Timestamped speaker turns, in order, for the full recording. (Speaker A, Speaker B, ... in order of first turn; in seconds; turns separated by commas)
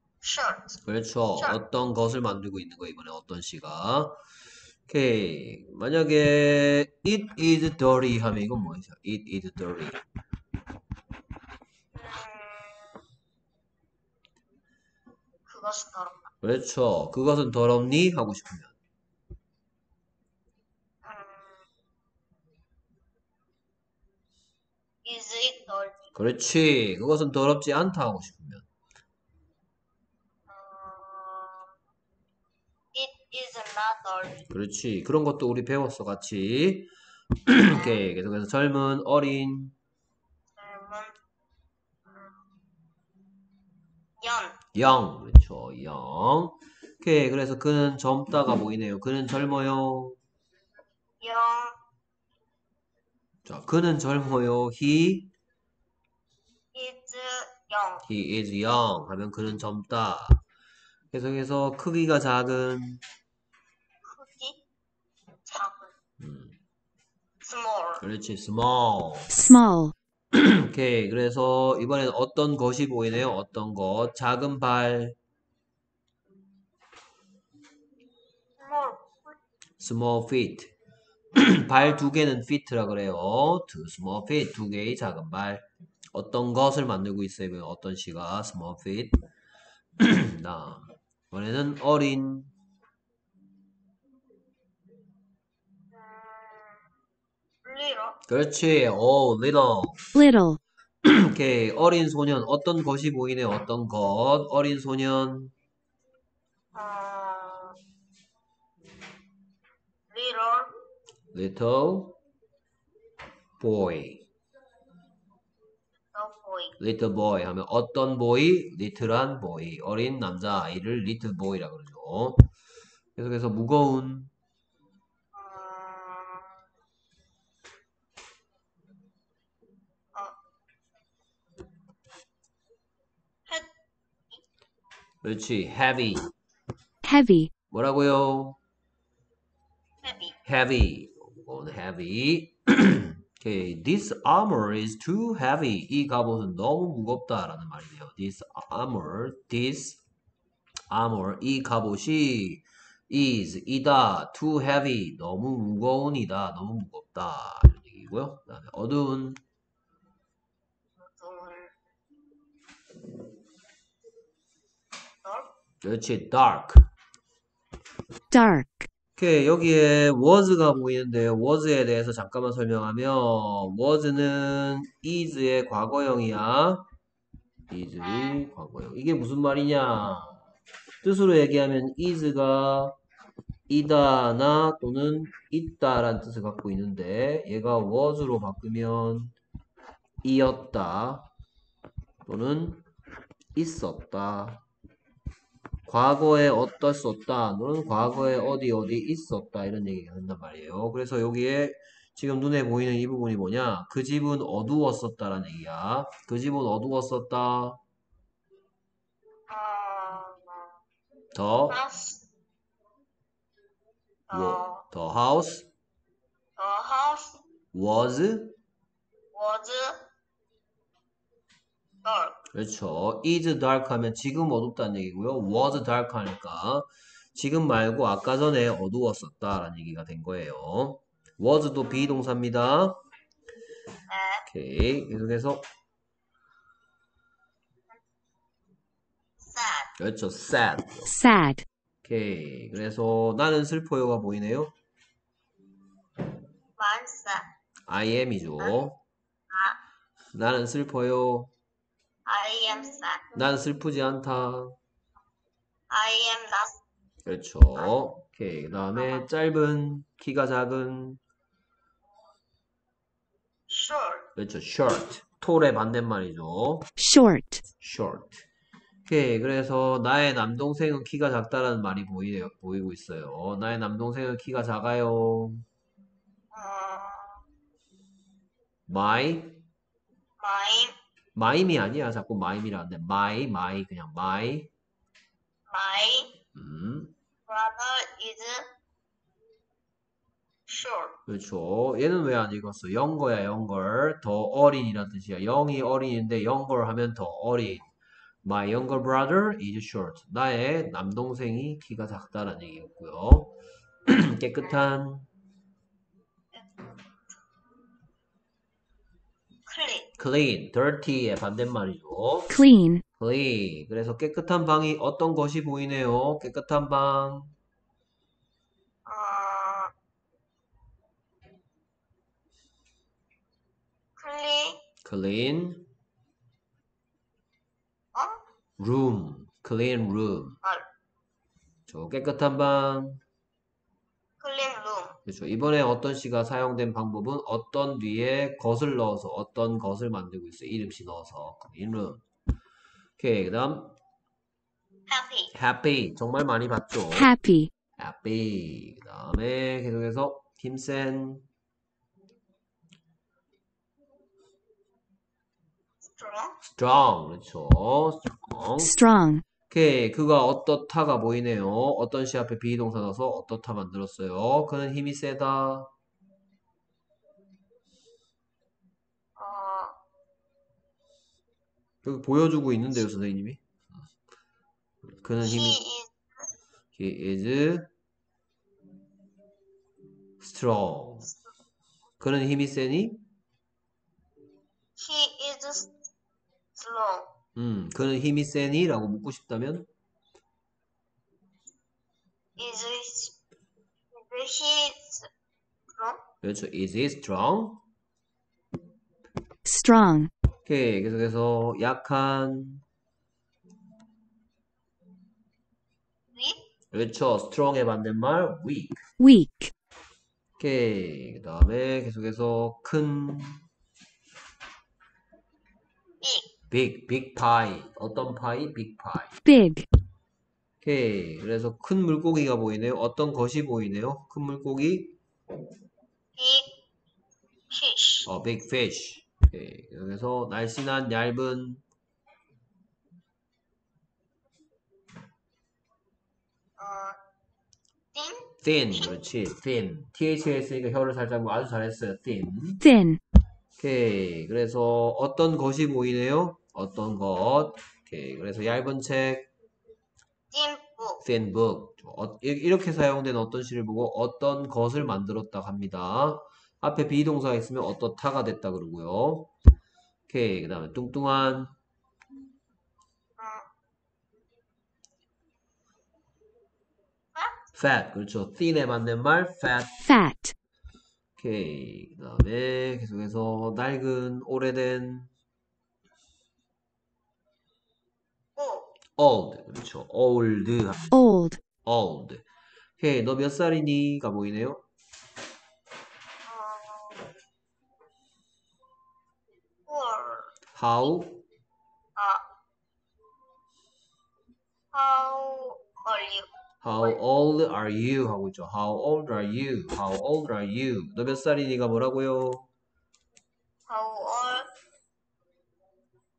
Speaker A: 0.2-0.8, Speaker B: 0.9-4.2, Speaker B: 4.9-10.0, Speaker A: 11.9-13.0, Speaker A: 15.5-16.3, Speaker B: 16.4-18.8, Speaker A: 21.0-21.6, Speaker A: 25.1-26.1, Speaker B: 26.1-28.7, Speaker A: 30.5-31.7, Speaker A: 32.9-34.5, Speaker B: 34.5-36.9, Speaker B: 37.5-39.8, Speaker A: 37.7-38.0, Speaker A: 40.6-41.2, Speaker A: 42.1-42.4, Speaker A: 44.2-44.6, Speaker B: 44.8-50.2, Speaker A: 51.2-51.8, Speaker B: 53.5-55.3, Speaker A: 56.7-58.1, Speaker B: 58.0-60.4, Speaker B: 61.1-63.0, Speaker A: 64.0-64.6, Speaker A: 65.5-65.9, Speaker B: 66.2-66.5, Speaker A: 67.4-68.0, Speaker B: 68.0-69.4, Speaker C: 69.3-69.9, Speaker B: 70.3-75.2, Speaker A: 78.6-79.4, Speaker B: 79.8-80.7, Speaker B: 81.3-89.2, Speaker B: 90.0-92.5, Speaker A: 95.9-96.9, Speaker A: 97.6-98.2, Speaker B: 98.3-100.0, Speaker C: 100.2-100.6, Speaker B: 101.0-105.5, Speaker A: 106.7-107.8, Speaker A: 110.1-110.7, Speaker B: 111.3-112.2, Speaker B: 113.6-114.2, Speaker A: 116.1-116.8, Speaker B: 116.8-122.5, Speaker B: 123.2-124.3, Speaker A: 125.3-126.6, Speaker B: 135.2-136.2, Speaker C: 137.0-137.5, Speaker B: 137.7-138.6, Speaker A: 140.0-140.4, Speaker B: 140.4-150.0, Speaker B: 150.9-159.4, Speaker A: 161.0-161.8, Speaker A: 165.2-165.5, Speaker B: 165.8-166.9, Speaker C: 168.3-168.9, Speaker B: 169.2-176.8, Speaker B: 177.7-180.4, Speaker A: 178.0-178.4, Speaker B: 181.0-183.0, Speaker B: 183.7-189.3, Speaker B: 190.2-191.3, Speaker B: 192.2-192.8, Speaker B: 193.6-194.6, Speaker B: 195.9-207.8, Speaker A: 209.5-210.8, Speaker B: 211.3-211.8, Speaker A: 211.7-212.2, Speaker A: 214.3-214.8, Speaker B: 214.3-215.7, Speaker A: 216.6-217.4, Speaker B: 217.7-218.6, Speaker A: 219.3-220.0, Speaker A: 222.0-222.4, Speaker B: 222.5-233.0, Speaker A: 234.1-234.5, Speaker B: 234.5-235.6, Speaker A: 239.4-239.9, Speaker B: 240.0-241.1, Speaker C: 241.1-241.7, Speaker B: 242.1-244.7, Speaker A: 246.8-247.5, Speaker B: 247.9-249.0, Speaker A: 249.5-249.8, Speaker B: 250.3-251.5, Speaker A: 252.3-253.3, Speaker B: 253.3-254.8, Speaker A: 255.9-256.8, Speaker B: 257.2-261.2, Speaker A: 258.9-259.2, Speaker A: 263.7-264.3, Speaker B: 264.4-266.9, Speaker C: 267.0-267.6, Speaker B: 267.8-268.4, Speaker B: 269.1-275.6, Speaker A: 276.5-277.4, Speaker B: 278.9-279.6, Speaker A: 280.4-281.0, Speaker B: 281.4-284.7, Speaker A: 285.7-286.3, Speaker B: 286.5-287.1, Speaker A: 287.5-288.7, Speaker A: 290.7-291.2, Speaker B: 291.3-297.9, Speaker B: 298.4-303.6, Speaker B: 304.1-305.3, Speaker A: 306.5-307.0, Speaker A: 309.7-310.1, Speaker B: 310.2-312.5, Speaker C: 312.5-313.0, Speaker B: 313.2-317.5, Speaker A: 319.1-319.9, Speaker A: 324.2-324.8, Speaker B: 325.0-325.9, Speaker A: 328.1-328.4, Speaker B: 328.8-330.6, Speaker B: 331.9-333.2, Speaker A: 334.4-335.2, Speaker B: 335.3-342.2, Speaker B: 343.2-343.9, Speaker A: 345.1-345.5, Speaker B: 345.5-347.3, Speaker C: 347.1-347.7, Speaker B: 348.0-351.5, Speaker A: 356.2-356.6, Speaker B: 356.6-358.9, Speaker C: 358.8-359.4, Speaker B: 359.7-365.9, Speaker A: 369.4-370.0, Speaker B: 372.0-373.6, Speaker B: 375.2-375.8, Speaker A: 375.4-376.1, Speaker B: 376.9-377.9, Speaker B: 380.4-381.3, Speaker B: 382.2-383.2, Speaker A: 385.0-385.9, Speaker A: 386.8-387.3, Speaker B: 387.6-389.9, Speaker A: 392.6-393.4, Speaker A: 394.1-395.3, Speaker A: 395.9-396.2, Speaker B: 396.4-397.8, Speaker C: 399.6-400.3, Speaker B: 400.7-402.8, Speaker A: 406.3-406.6, Speaker B: 406.9-409.0, Speaker C: 409.2-409.7, Speaker B: 410.6-413.6, Speaker A: 416.2-416.5, Speaker B: 416.7-419.4, Speaker C: 419.4-419.9, Speaker B: 420.8-425.2, Speaker A: 426.4-426.7, Speaker A: 427.7-428.3, Speaker B: 428.3-431.8, Speaker A: 436.8-437.2, Speaker A: 438.1-439.1, Speaker B: 438.6-442.8, Speaker C: 442.8-443.2, Speaker B: 443.8-449.5, Speaker A: 450.5-451.2, Speaker B: 451.2-459.5, Speaker B: 460.3-461.7, Speaker A: 463.4-463.7, Speaker B: 467.7-469.9, Speaker C: 470.0-470.6, Speaker B: 471.4-475.3, Speaker A: 478.6-478.9, Speaker B: 479.2-481.1, Speaker C: 481.1-481.6, Speaker B: 481.9-482.4, Speaker B: 483.0-484.8, Speaker A: 486.5-487.2, Speaker A: 489.9-490.6, Speaker B: 490.8-491.4, Speaker A: 492.2-492.4, Speaker A: 494.9-496.5, Speaker B: 496.8-502.7, Speaker A: 503.9-504.7